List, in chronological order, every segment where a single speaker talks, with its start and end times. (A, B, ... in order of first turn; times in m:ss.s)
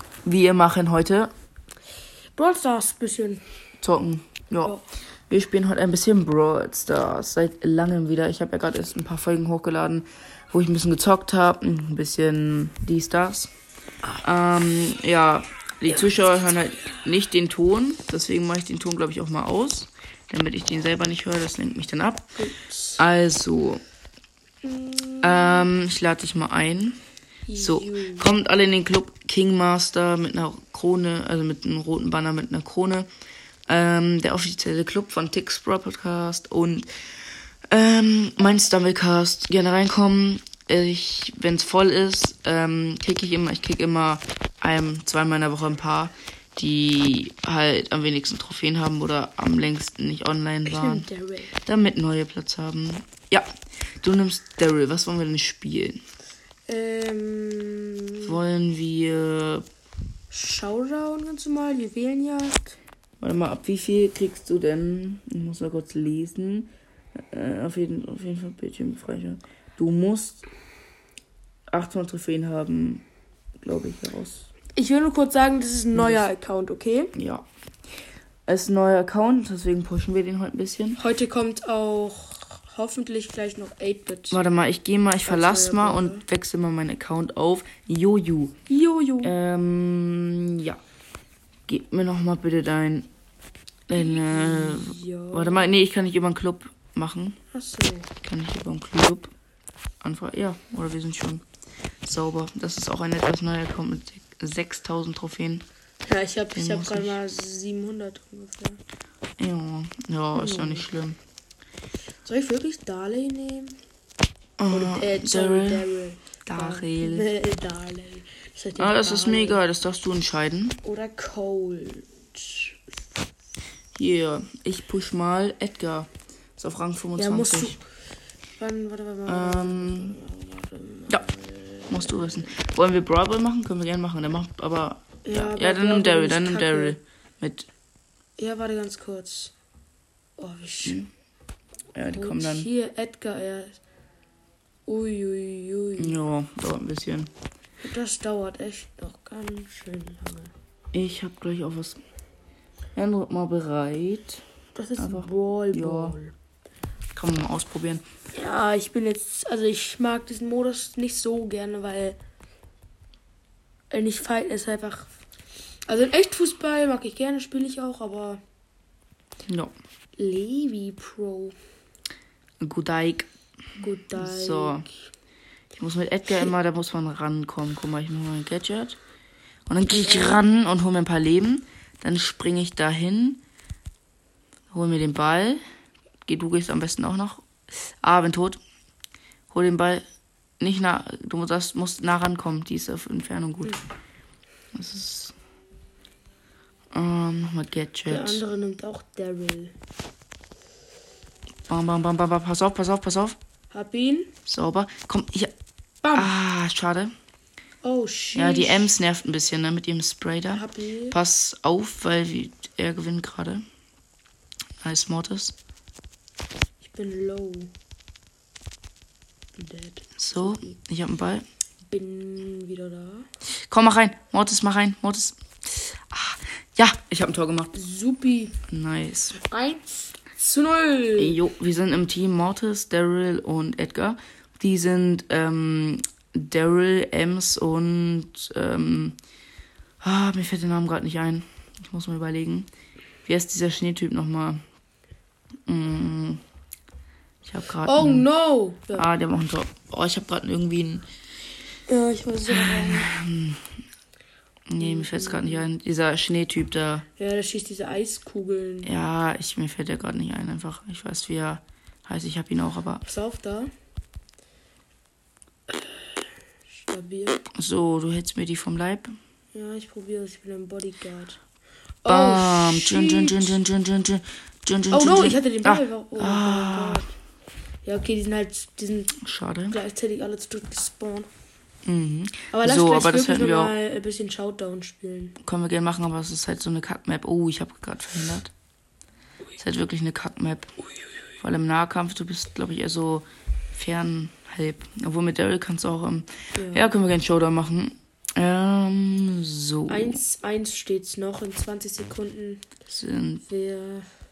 0:00.2-0:01.3 A
0:02.3-0:03.4 B
0:03.8-0:04.8 A
0:05.3-0:13.5 A
0:14.2-0:22.3 A
0:22.4-0:23.0 B
0:23.0-0:23.8 A
0:24.6-0:25.7 B
0:25.2-0:27.0 A
0:27.5-0:28.3 B
0:27.6-0:33.1 A
0:33.7-0:36.9 A
0:37.7-0:51.1 A
0:50.6-0:51.6 B
0:51.6-0:53.5 A
0:54.0-0:56.0 A
0:56.7-0:58.3 B
0:58.2-0:59.6 A
1:00.3-1:02.8 B
1:03.2-1:06.7 A
1:07.3-1:10.4 A
1:11.7-1:13.0 A
1:13.6-1:14.5 A
1:14.7-1:17.1 B
1:15.9-1:16.3 A
1:17.2-1:17.4 A
1:18.5-1:21.0 A
1:21.0-1:24.4 B
1:24.3-1:28.6 A
1:25.3-1:26.2 B
1:28.7-1:29.3 B
1:29.2-1:30.8 A
1:31.7-1:33.1 A
1:33.9-1:37.4 A
1:34.0-1:35.7 B
1:37.5-1:38.1 B
1:38.2-1:39.3 A
1:40.0-1:41.4 A
1:42.0-1:45.7 A
1:46.0-1:48.8 B
1:46.6-1:47.2 A
1:49.4-1:51.2 A
1:50.3-1:50.9 B
1:52.2-1:53.8 B
1:54.6-1:55.9 A
1:54.7-1:59.6 B
1:56.4-1:57.3 A
1:58.8-2:00.8 A
2:00.8-2:02.7 B
2:04.0-2:07.8 A
2:07.2-2:07.8 B
2:08.6-2:12.5 B
2:09.2-2:10.2 A
2:11.9-2:17.7 A
2:15.2-2:17.0 B
2:18.4-2:19.5 B
2:20.4-2:21.0 B
2:21.9-2:22.7 A
2:22.1-2:23.8 B
2:24.8-2:26.2 B
2:26.0-2:27.3 A
2:27.8-2:30.5 B
2:30.9-2:32.0 A
2:33.0-2:34.4 A
2:34.8-2:36.3 B
2:35.0-2:36.2 A
2:37.1-2:38.0 A
2:38.3-2:42.2 B
2:43.9-2:45.1 B
2:45.9-2:48.4 B
2:49.5-2:49.7 A
2:50.2-2:51.6 B
2:52.6-2:53.3 A
2:53.8-2:54.9 B
2:54.1-2:54.8 A
2:55.8-2:59.0 A
2:59.7-3:03.4 A
2:59.9-3:00.4 B
3:04.7-3:05.6 A
3:06.2-3:08.6 A
3:09.5-3:10.0 A
3:10.6-3:13.8 A
3:14.7-3:15.3 A
3:16.9-3:18.4 A
3:18.1-3:19.8 B
3:21.7-3:23.4 A
3:23.7-3:24.3 B
3:24.4-3:25.5 A
3:26.0-3:26.3 B
3:26.1-3:27.1 A
3:27.8-3:28.9 B
3:28.3-3:33.6 A
3:30.5-3:31.2 B
3:34.8-3:35.6 A
3:36.8-3:37.7 B
3:39.6-3:40.8 B
3:40.2-3:41.4 A
3:41.9-3:43.3 B
3:43.7-3:47.7 A
3:47.7-3:48.6 B
3:48.7-3:49.4 A
3:49.3-3:51.4 B
3:51.2-3:59.2 A
4:00.0-4:02.7 A
4:03.2-4:04.6 A
4:05.7-4:06.4 A
4:07.4-4:08.3 A
4:07.8-4:09.1 B
4:08.9-4:11.0 A
4:11.9-4:13.1 B
4:12.5-4:13.7 A
4:14.7-4:17.1 A
4:14.8-4:15.6 B
4:17.2-4:18.9 B
4:18.8-4:23.0 A
4:23.0-4:23.7 B
4:25.7-4:27.4 B
4:27.5-4:29.1 A
4:29.5-4:31.4 B
4:32.0-4:33.6 B
4:32.1-4:37.1 A
4:34.9-4:37.1 B
4:37.8-4:39.2 B
4:39.2-4:39.8 A
4:39.7-4:41.3 B
4:41.9-4:43.8 A
4:42.5-4:45.4 B
4:45.4-4:48.5 A
4:49.6-4:50.7 A
4:51.4-5:00.2 A
4:56.6-4:56.9 B
4:59.9-5:02.7 B
5:02.9-5:03.4 A
5:03.5-5:04.1 B